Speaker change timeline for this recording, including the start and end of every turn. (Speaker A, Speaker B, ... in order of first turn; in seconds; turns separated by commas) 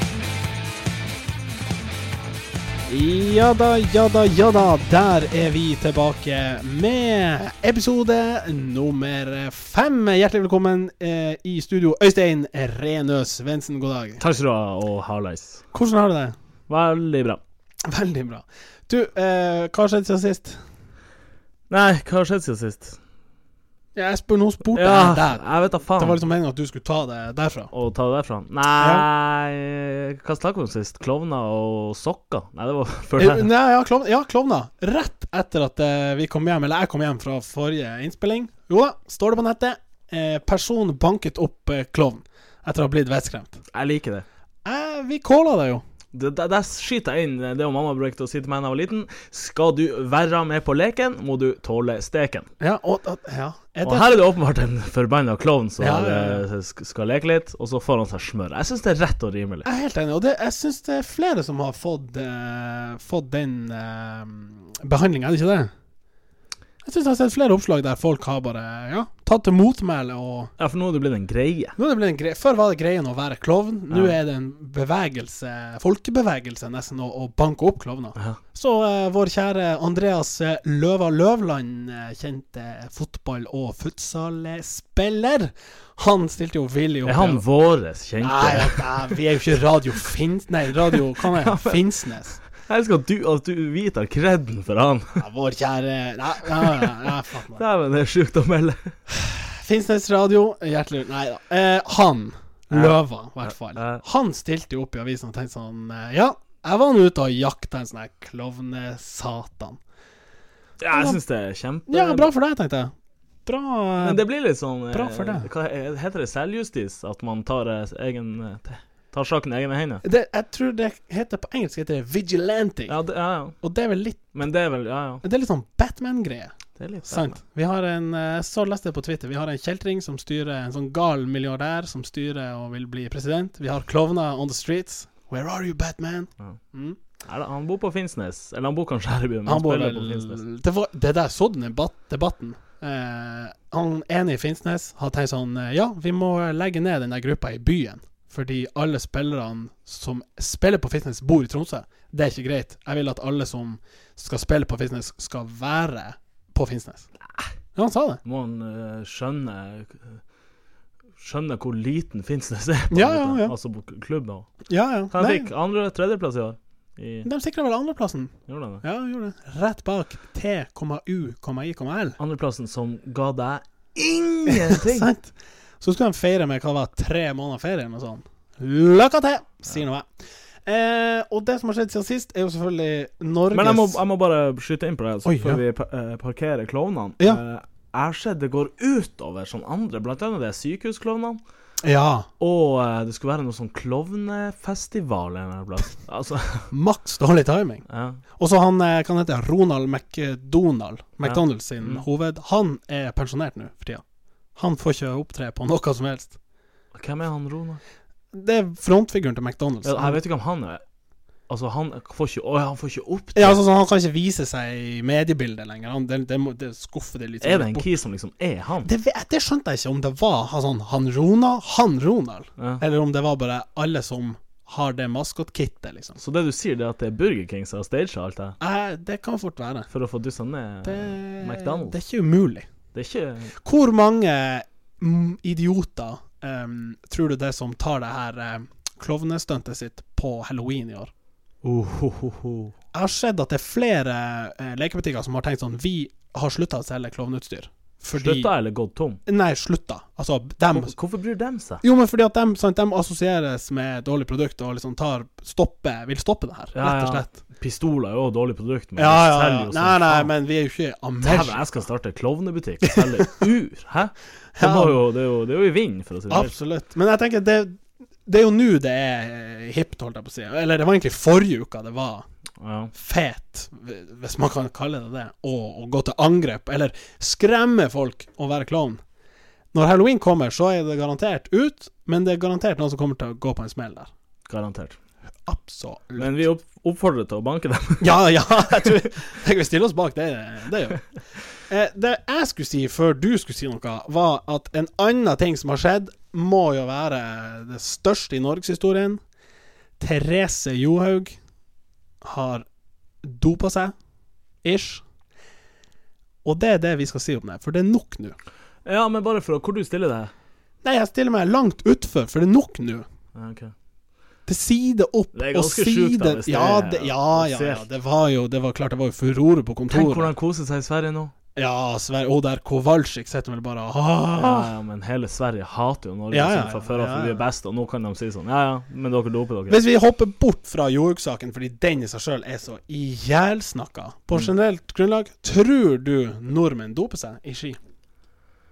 Speaker A: 2.9-14.2, Speaker B: 14.2-15.6, Speaker A: 15.7-16.4, Speaker B: 16.7-17.4, Speaker A: 17.9-20.6, Speaker B: 21.7-23.0, Speaker A: 23.9-25.4, Speaker B: 24.7-26.2, Speaker A: 25.9-27.7, Speaker B: 27.7-33.5, Speaker A: 28.8-29.0, Speaker A: 33.2-43.6, Speaker B: 43.7-44.2, Speaker A: 44.6-45.8, Speaker B: 46.1-52.5, Speaker A: 52.6-54.2, Speaker B: 53.8-59.6, Speaker A: 55.8-56.5, Speaker A: 59.6-65.7, Speaker A: 66.8-70.5, Speaker B: 70.6-71.7, Speaker A: 71.8-87.4, Speaker B: 73.9-74.2, Speaker B: 87.0-89.2, Speaker A: 88.2-92.4, Speaker B: 90.9-91.9, Speaker B: 92.6-95.2, Speaker A: 95.2-97.6, Speaker B: 96.5-96.9, Speaker B: 97.5-98.9, Speaker A: 99.1-109.8, Speaker B: 102.7-104.0, Speaker B: 110.8-112.3, Speaker A: 110.9-111.2, Speaker A: 111.9-112.9, Speaker A: 113.5-114.2, Speaker B: 114.0-120.0, Speaker A: 114.9-115.5, Speaker A: 120.0-123.0, Speaker B: 122.9-123.5, Speaker A: 123.6-124.2, Speaker B: 124.3-125.2, Speaker A: 125.2-126.5, Speaker B: 126.8-127.3, Speaker A: 127.0-137.0, Speaker B: 137.2-140.4, Speaker A: 139.4-157.1, Speaker A: 157.7-158.2, Speaker B: 158.2-160.2, Speaker B: 161.2-164.5, Speaker A: 162.9-163.5, Speaker A: 164.7-165.5, Speaker B: 165.1-167.3, Speaker A: 167.2-172.2, Speaker B: 168.5-168.8, Speaker B: 172.2-175.1, Speaker A: 174.4-180.1, Speaker A: 180.7-184.0, Speaker B: 183.5-191.4, Speaker A: 185.2-185.6, Speaker A: 191.8-192.3, Speaker B: 192.4-196.7, Speaker A: 196.7-197.8, Speaker B: 197.9-198.2, Speaker A: 198.4-204.0, Speaker B: 201.2-202.0, Speaker A: 204.6-206.3, Speaker B: 206.9-207.8, Speaker A: 208.3-210.2, Speaker B: 209.8-210.8, Speaker B: 211.5-213.6, Speaker A: 213.3-217.8, Speaker B: 217.4-218.9, Speaker A: 218.8-226.2, Speaker B: 226.2-228.6, Speaker A: 228.6-229.9, Speaker B: 229.9-232.0, Speaker A: 230.8-232.7, Speaker B: 232.9-233.5, Speaker A: 233.6-241.1, Speaker B: 241.6-242.7, Speaker A: 242.9-248.5, Speaker B: 248.1-249.2, Speaker A: 249.2-250.9, Speaker B: 250.7-251.8, Speaker A: 251.8-257.4, Speaker B: 256.7-260.3, Speaker A: 258.9-261.6, Speaker B: 261.2-266.5, Speaker A: 262.8-263.4, Speaker A: 264.6-265.0, Speaker A: 266.3-272.2, Speaker B: 272.6-272.9, Speaker A: 272.9-279.0, Speaker A: 279.7-284.1, Speaker B: 284.5-285.0, Speaker A: 285.4-286.4, Speaker B: 286.2-288.1, Speaker A: 288.0-291.0, Speaker A: 291.6-299.2, Speaker A: 300.0-301.4, Speaker A: 302.2-302.6, Speaker A: 303.2-303.9, Speaker A: 304.6-305.0, Speaker A: 306.4-308.4, Speaker B: 308.8-310.3, Speaker A: 310.8-313.1, Speaker B: 313.3-313.7, Speaker A: 314.5-320.3, Speaker B: 315.3-317.8, Speaker B: 319.9-321.3, Speaker A: 321.5-324.7, Speaker B: 324.4-329.8, Speaker A: 326.3-327.4, Speaker A: 329.7-337.8